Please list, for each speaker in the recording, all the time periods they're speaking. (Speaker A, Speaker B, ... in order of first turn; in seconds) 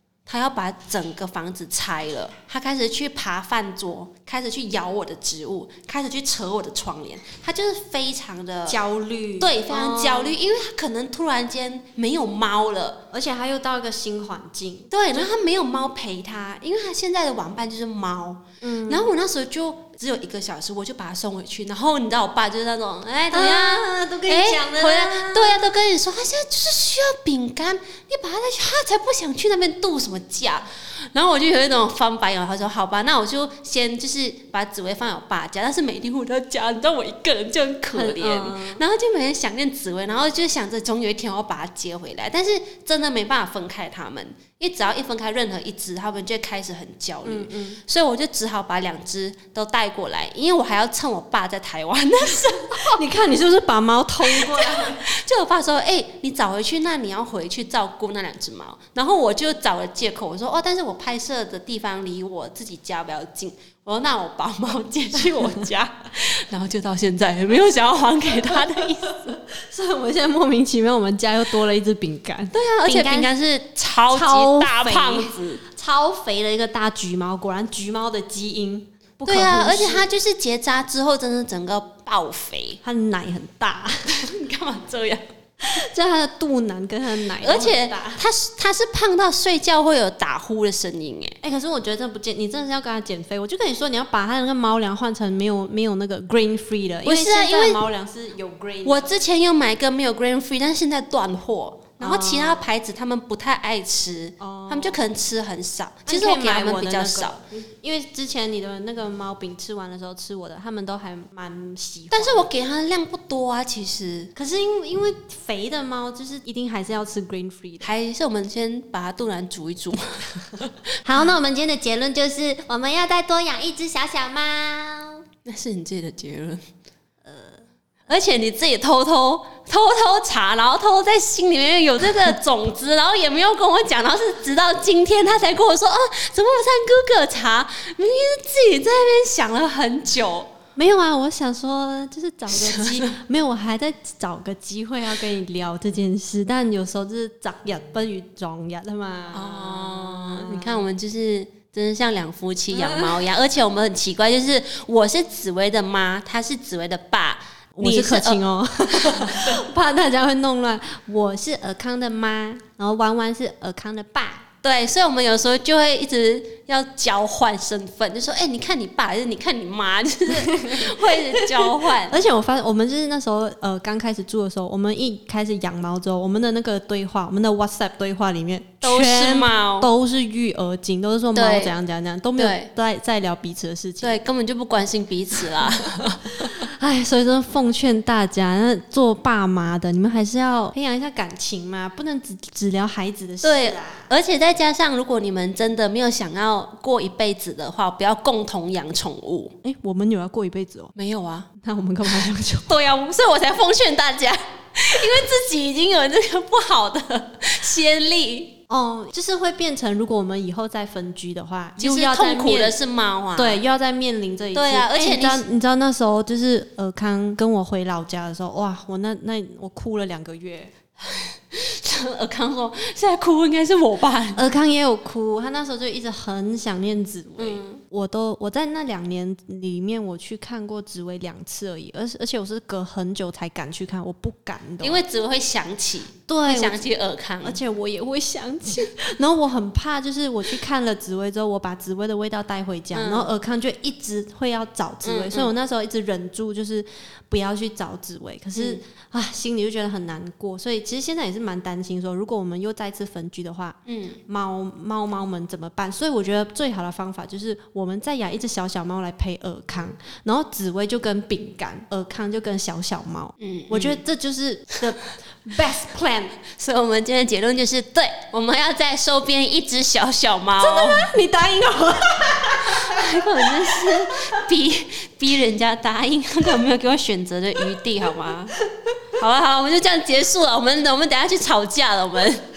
Speaker A: 0.3-8.8, 9.4-13.0, 14.9-53.0, 54.2-69.4, 72.5-75.6, 79.2-82.8, 84.1-85.2, 87.4-91.4, 97.0-97.8, 98.8-107.4, 112.1-114.3, 117.8-120.8, 125.5-126.6, 128.1-140.5, 149.3-159.6, 164.6-172.2, 178.8-179.9, 181.3-181.8, 182.4-182.7, 184.0-186.6, 193.4-199.6, 200.9-201.5, 202.7-208.6, 211.8-213.6, 214.5-215.4, 221.0-224.4, 227.4-227.8, 234.8-237.6, 242.9-243.3, 245.0-245.5, 248.6-248.8, 253.9-254.2, 263.4-264.0, 266.6-271.1, 272.7-278.6, 279.2-282.5
Speaker B: 8.7-10.3, 13.1-15.3, 18.6-19.1, 23.3-25.6, 37.9-38.8, 47.2-47.8, 52.8-55.0, 68.3-68.9, 69.5-73.3, 74.1-80.1, 82.8-84.1, 85.6-88.2, 91.4-99.1, 102.0-102.7, 104.4-105.0, 106.1-112.5, 114.4-117.9, 121.0-125.2, 140.8-150.9, 152.7-153.2, 157.8-164.4, 170.4-184.2, 186.4-194.1, 199.6-200.9, 201.6-202.7, 208.7-212.8, 213.4-220.7, 224.3-235.0, 236.3-236.8, 237.4-266.4, 270.6-274.0